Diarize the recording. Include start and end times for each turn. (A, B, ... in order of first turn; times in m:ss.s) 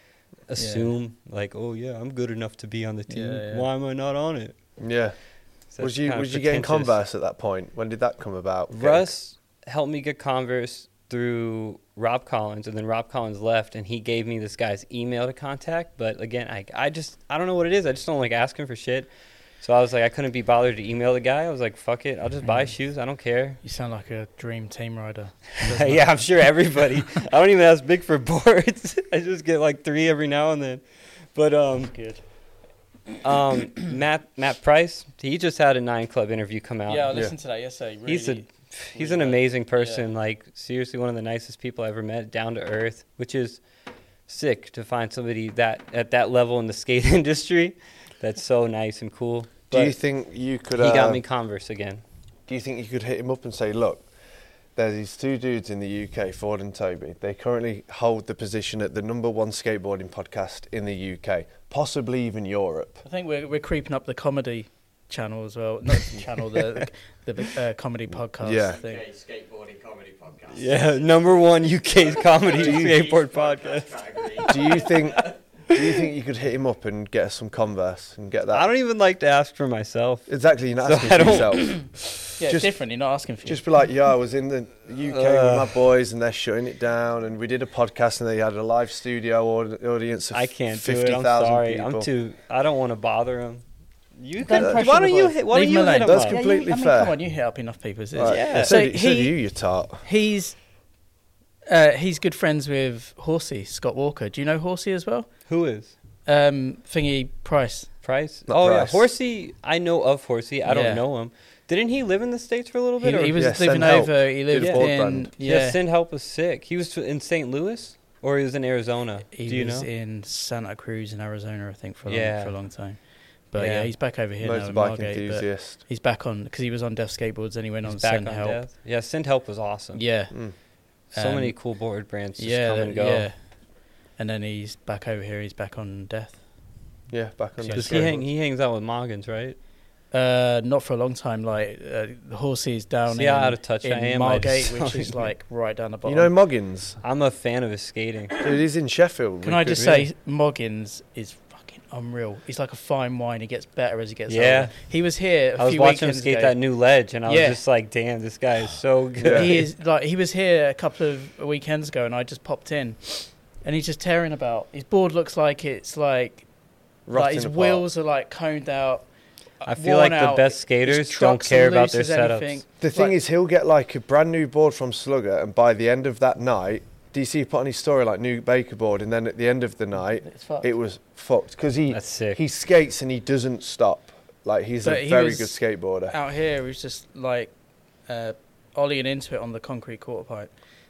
0:00.5-0:04.6 A
0:00.6-0:00.9 B
0:03.1-0:03.7 B
0:04.8-0:05.1 C
0:05.7-0:07.0 A
0:05.8-0:09.1 C
0:08.7-0:19.1 A
0:19.6-0:23.6 A
0:22.4-0:22.7 B
0:23.6-0:26.1 B
0:25.6-0:32.0 A
0:31.9-0:32.2 B
0:33.2-0:37.2 A
0:36.9-0:40.0 B
0:38.1-0:43.6 A
0:44.3-0:50.0 A
0:49.7-0:51.2 C
0:50.8-0:52.0 A
0:52.5-0:54.1 C
0:54.8-1:03.0 C
1:03.0-1:09.0 B
1:08.4-1:08.8 C
1:08.6-1:15.4 D
1:10.5-1:14.7 A
1:12.6-1:12.9 C
1:14.5-1:18.7 C
1:18.5-1:22.1 A
1:20.3-1:21.9 C
1:22.4-1:23.6 B
1:22.4-1:22.7 C
1:23.4-1:32.1 C
1:25.1-1:25.8 A
1:30.3-1:33.6 A
1:34.2-1:36.4 A
1:34.4-1:39.4 B
1:34.5-1:34.8 C
1:36.0-1:37.2 C
1:38.2-1:40.0 C
1:38.2-1:38.8 A
1:40.0-1:40.6 B
1:41.7-1:45.3 B
1:45.5-1:45.9 A
1:46.3-1:47.9 B
1:48.0-1:53.7 A
1:48.5-1:49.0 C
1:50.6-1:51.0 B
1:53.0-1:55.8 B
1:53.4-1:55.3 C
1:54.6-1:54.9 A
1:55.4-1:59.9 A
1:59.3-2:08.6 B
2:02.1-2:02.6 A
2:03.6-2:03.9 A
2:04.4-2:05.8 C
2:07.8-2:10.0 A
2:10.0-2:10.4 B
2:11.1-2:13.3 A
2:11.1-2:11.6 B
2:12.4-2:13.4 B
2:14.1-2:16.4 B
2:17.1-2:18.3 C
2:17.6-2:18.2 B
2:17.8-2:19.6 A
2:20.1-2:26.3 B
2:23.1-2:25.3 A
2:26.0-2:27.0 C
2:27.0-2:28.4 A
2:28.4-2:29.9 C
2:29.4-2:36.6 B
2:34.3-2:34.8 A
2:35.6-2:39.6 A
2:37.3-2:37.6 B
2:39.2-2:39.6 C
2:39.3-2:46.5 B
2:47.1-2:47.8 C
2:47.1-2:49.1 B
2:49.6-2:53.2 B
2:49.7-2:52.6 A
2:52.8-3:06.1 C
3:00.2-3:00.7 B
3:01.9-3:02.4 A
3:04.8-3:05.6 B
3:06.1-3:07.5 B
3:08.1-3:10.5 B